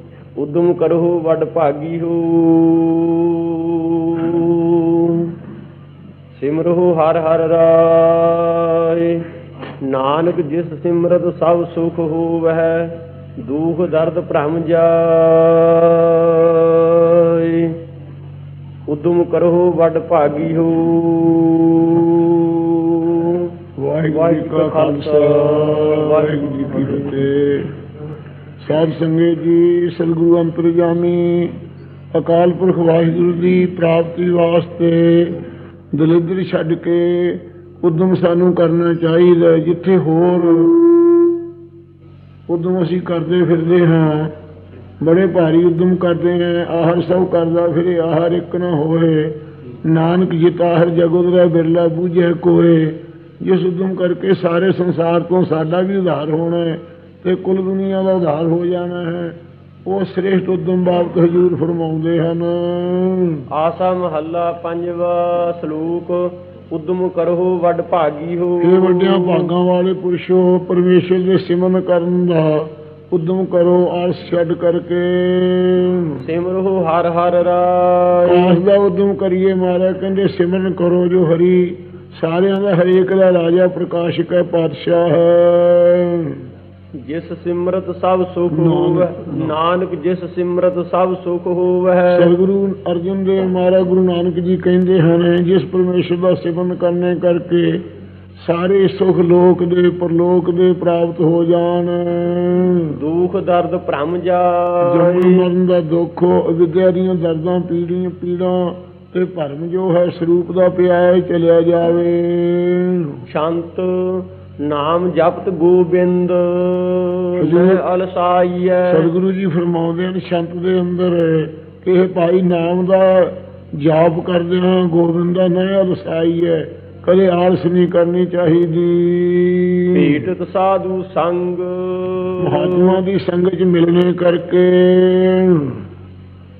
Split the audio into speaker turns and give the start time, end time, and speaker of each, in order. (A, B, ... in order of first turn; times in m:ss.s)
0:00.4-0:05.3 A
0:06.4-0:09.2 A
0:09.8-0:17.8 A
0:18.9-0:23.5 A
0:23.8-0:27.7 B
0:24.1-0:27.2 A
0:28.6-0:31.6 B
0:32.1-0:35.4 B
0:35.9-0:40.8 B
0:42.5-0:44.3 B
0:45.0-1:03.4 B
1:03.5-1:09.5 A
1:08.6-1:16.2 B
1:16.2-1:18.6 A
1:18.2-1:26.4 B
1:27.0-1:32.3 A
1:28.5-1:29.6 B
1:32.1-1:37.8 B
1:38.4-1:43.0 B
1:42.9-1:45.4 A
1:44.8-1:53.2 B
1:53.3-1:59.1 A
1:57.4-1:57.8 B
1:58.9-2:10.3 B
2:09.9-2:13.0 A
2:12.4-2:15.8 B